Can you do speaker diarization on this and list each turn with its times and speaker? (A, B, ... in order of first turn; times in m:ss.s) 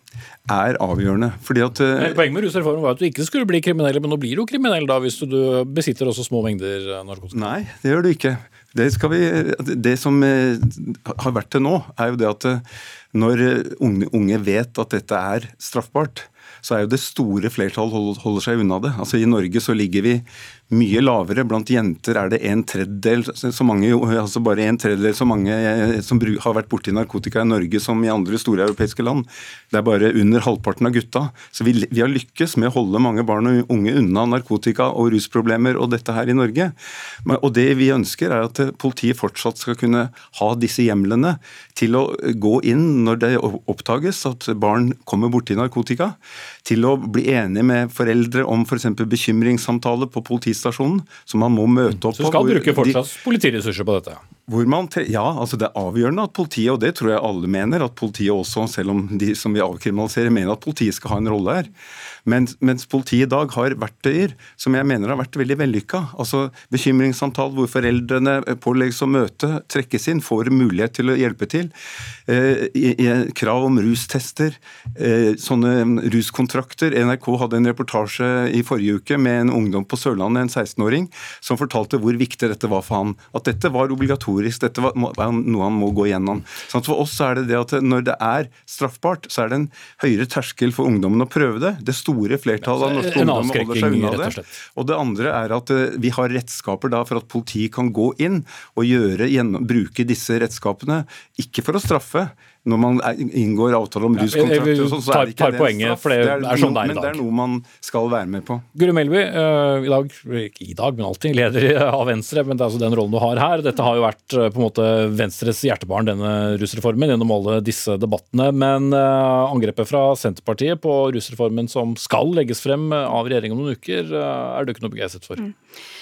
0:00.5-0:02.2 A
0:02.0-0:07.6 B
0:07.3-0:53.0 A
0:52.1-0:54.2 B
0:54.5-1:01.7 A
1:02.2-1:11.7 A
1:12.3-1:48.6 A
1:32.6-1:34.6 B
1:44.2-1:47.2 B
1:48.7-2:05.4 B